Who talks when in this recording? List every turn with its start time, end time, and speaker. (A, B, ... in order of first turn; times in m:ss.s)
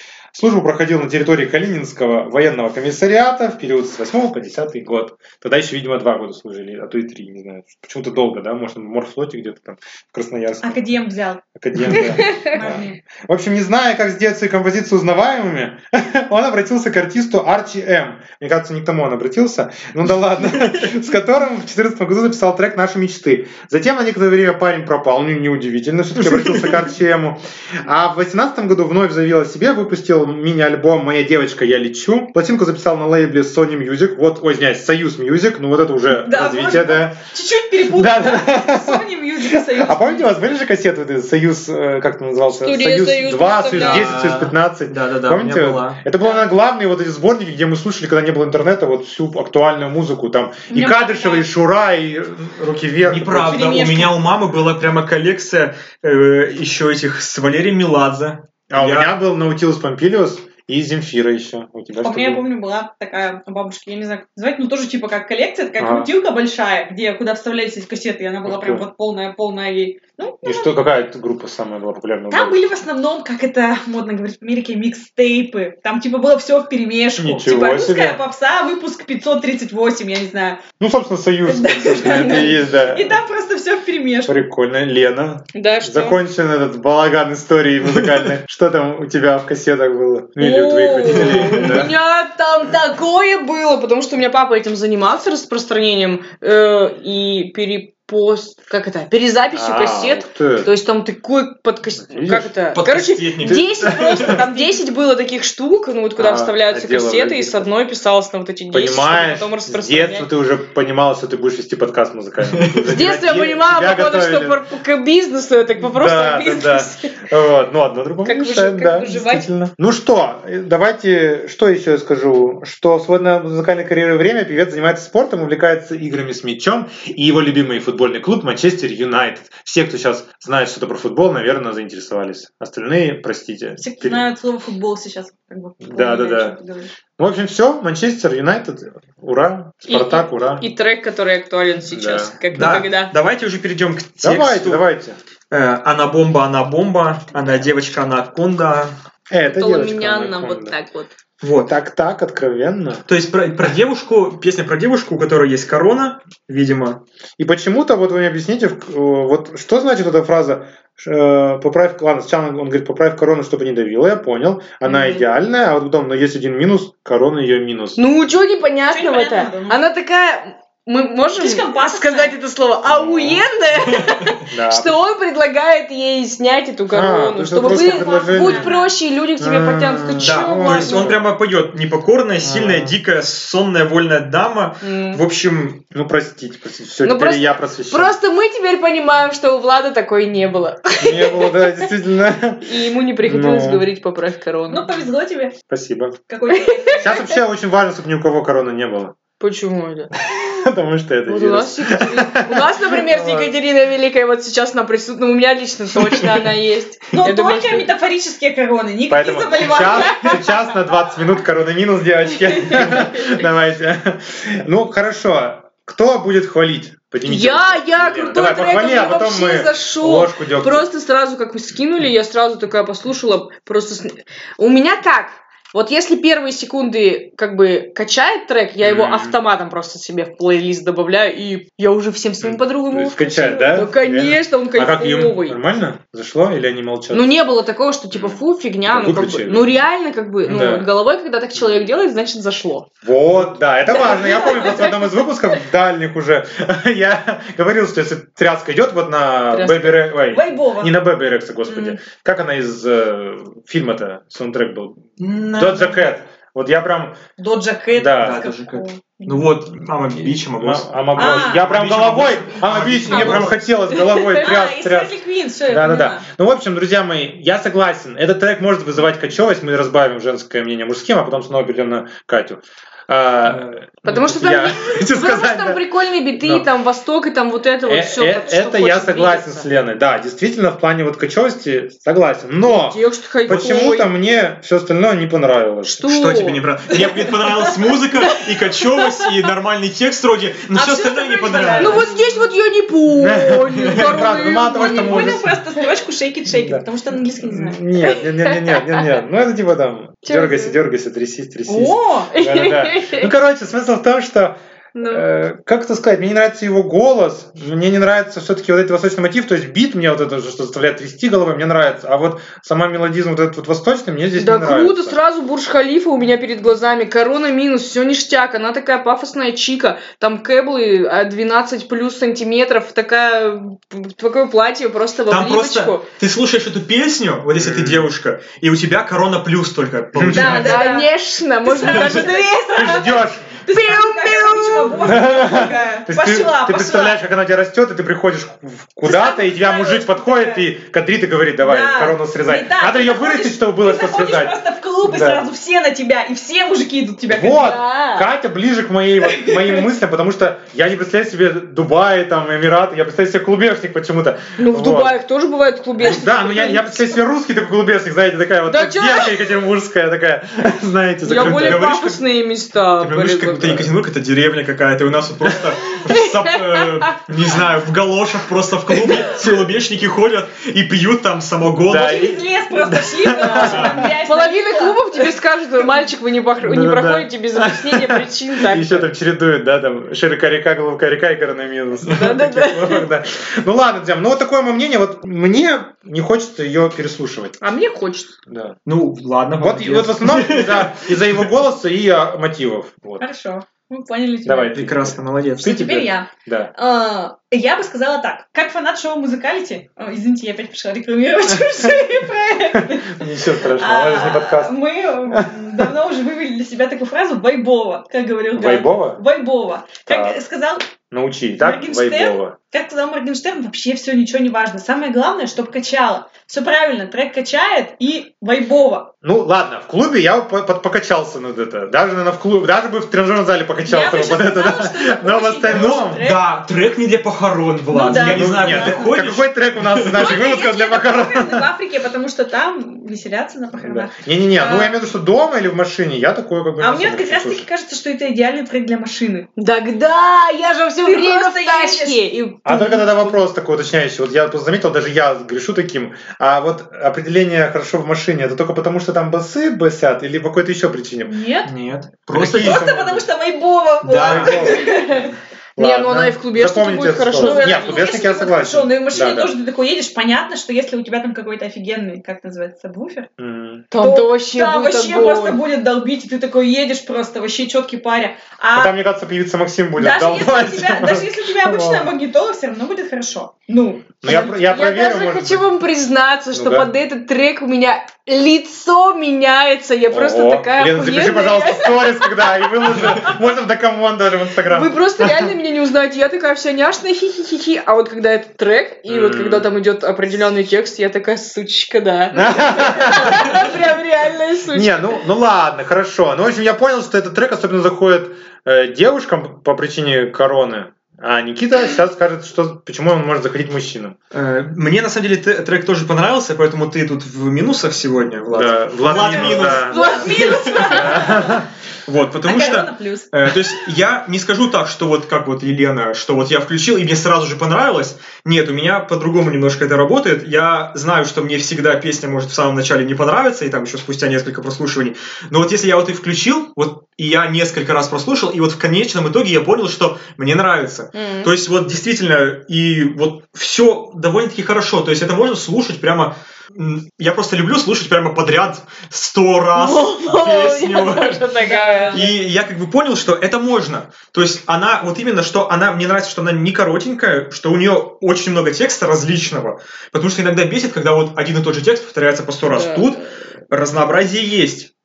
0:00.3-0:10.8 A
0:10.6-0:11.9 B
0:11.6-0:37.2 A
0:11.9-0:12.6 C
0:12.5-0:13.0 B
0:26.2-0:26.9 D
0:36.2-0:40.3 B
0:37.8-0:53.9 A
0:42.6-0:44.1 C
0:43.7-0:46.0 D
0:50.7-0:51.4 C
0:53.0-0:59.1 D
0:53.5-0:54.2 B
0:58.7-1:02.4 A
1:02.0-1:10.7 B
1:05.8-1:06.1 A
1:08.4-1:08.9 A
1:10.4-1:12.6 A
1:12.3-1:20.6 B
1:17.2-1:18.2 A
1:20.8-1:23.2 A
1:21.5-1:24.3 B
1:22.1-1:22.4 C
1:24.3-1:32.0 A
1:25.6-1:26.2 C
1:30.4-1:50.3 C
1:31.0-1:31.8 D
1:39.5-1:40.7 A
1:42.0-1:42.5 A
1:42.7-1:44.4 D
1:43.8-1:44.4 A
1:44.2-1:44.8 B
1:46.2-1:47.7 A
1:48.7-1:54.6 A
1:52.5-1:53.0 D
1:52.9-1:57.2 C
1:55.8-2:14.2 A
1:58.2-1:59.5 C
2:13.8-2:16.9 B
2:15.8-2:16.6 A
2:17.2-2:20.6 A
2:19.9-2:23.1 C
2:21.9-2:22.8 A
2:22.5-2:24.8 D
2:24.2-2:25.2 A
2:25.5-2:28.9 D
2:29.3-2:30.8 A
2:29.4-2:31.1 C
2:31.4-2:31.7 D
2:31.7-2:33.0 A
2:33.1-2:37.0 D
2:37.4-2:48.0 A
2:44.8-2:45.3 C
2:48.0-3:01.2 C
2:48.9-2:49.8 B
2:51.4-2:52.4 B
2:52.8-2:53.4 A
2:53.7-2:54.3 D
2:54.5-2:55.0 A
2:56.9-2:58.8 A
2:57.6-2:59.0 B
2:59.4-3:01.2 A
3:00.2-3:05.8 D
3:02.4-3:03.0 A
3:04.8-3:05.2 C
3:05.9-3:08.2 A
3:07.0-3:11.9 C
3:11.0-3:13.9 A
3:12.6-3:14.9 C
3:14.7-3:15.5 B
3:15.7-3:16.2 A
3:16.3-3:17.4 B
3:16.5-3:17.3 C
3:17.0-3:19.2 A
3:19.4-3:20.1 C
3:20.2-3:23.5 A
3:21.3-3:27.9 C
3:27.1-3:30.5 B
3:29.1-3:40.9 A
3:32.6-3:33.4 C
3:37.2-3:55.6 C
3:48.8-3:49.4 A
3:52.4-3:57.3 A
3:57.1-4:02.9 C
3:58.1-3:59.8 A
4:00.4-4:00.9 A
4:03.0-4:17.2 A
4:03.9-4:05.2 C
4:09.5-4:10.1 C
4:10.3-4:10.9 B
4:11.7-4:12.0 C
4:15.2-4:16.0 D
4:17.4-4:19.5 B
4:18.0-4:18.4 A
4:18.2-4:23.6 D
4:20.5-4:25.1 A
4:21.2-4:21.7 B
4:23.9-4:24.4 C
4:24.4-4:26.2 B
4:25.7-4:35.8 A
4:33.4-4:33.8 D
4:34.0-4:39.6 C
4:36.4-4:36.7 A
4:37.8-4:46.0 A
4:42.6-4:44.1 C
4:45.9-4:46.6 C
4:46.0-4:52.1 D
4:50.7-4:52.3 B
4:51.8-4:55.4 C
4:53.1-4:55.6 A
4:53.8-4:54.2 D
4:54.7-4:57.8 B
4:56.5-4:56.8 A
4:57.4-5:15.2 A
4:58.0-4:59.0 C
5:00.2-5:00.8 C
5:01.7-5:02.3 B
5:02.3-5:03.3 C
5:05.0-5:05.2 C
5:14.4-5:26.0 C
5:25.3-5:30.8 D
5:27.6-5:28.1 A
5:30.1-5:30.8 A
5:30.3-5:31.1 B
5:30.4-5:32.5 C
5:31.6-5:37.2 B
5:32.8-5:33.5 A
5:33.7-5:35.2 C
5:35.0-5:45.4 A
5:39.0-5:40.7 B
5:41.6-5:47.8 B
5:47.3-5:55.2 A
5:47.5-5:48.3 C
5:54.6-5:57.2 C
5:56.0-6:01.9 A
5:58.7-5:59.5 C
6:01.2-6:03.8 C
6:01.2-6:02.2 D
6:03.0-6:12.2 D
6:05.9-6:07.1 C
6:11.9-6:14.0 A
6:11.9-6:16.0 B
6:13.4-6:19.1 C
6:13.7-6:14.0 D
6:16.6-6:27.6 A
6:22.0-6:23.1 C
6:27.6-6:28.3 C
6:28.5-6:28.8 A
6:28.9-6:31.3 D
6:29.6-6:33.2 A
6:33.2-6:34.8 B
6:34.4-6:36.7 A
6:34.7-6:36.0 D
6:35.6-6:43.2 B
6:42.7-6:44.7 A
6:43.7-6:50.9 B
6:45.3-6:45.9 A
6:48.6-6:49.2 A
6:50.1-6:50.4 A
6:51.1-6:52.6 A
6:51.6-6:59.1 B
6:59.2-7:06.3 A
7:03.8-7:06.4 B
7:05.7-7:10.3 D
7:07.9-7:09.1 B
7:08.1-7:11.7 A
7:10.1-7:15.0 B
7:13.8-7:17.7 A
7:16.8-7:19.5 B
7:19.6-7:23.4 C
7:21.0-7:22.2 B
7:22.6-7:31.4 A
7:31.3-7:31.7 B
7:31.6-7:32.9 D
7:32.3-7:33.2 A
7:32.5-7:35.3 B
7:34.0-7:34.8 D
7:34.2-7:35.0 A
7:35.8-7:38.2 C
7:35.8-7:39.5 A
7:37.4-7:43.3 B
7:43.4-7:43.9 A
7:43.9-7:45.6 C
7:44.0-7:48.9 B
7:48.7-7:52.1 A
7:50.0-7:54.2 B
7:54.2-7:55.6 A
7:54.2-8:03.1 C
7:56.5-7:56.9 A
8:00.1-8:05.5 A
8:04.7-8:15.2 C
8:09.1-8:09.8 A
8:12.3-8:13.7 A
8:14.7-8:24.2 A
8:24.3-8:31.2 D
8:28.5-8:31.7 A
8:29.1-8:31.6 B
8:30.0-8:30.9 C
8:32.1-9:01.6 D
8:32.4-8:33.3 B
8:51.2-8:51.5 C
8:59.8-9:02.4 C
9:01.6-9:02.3 B
9:02.1-9:14.9 D
9:12.6-9:13.3 C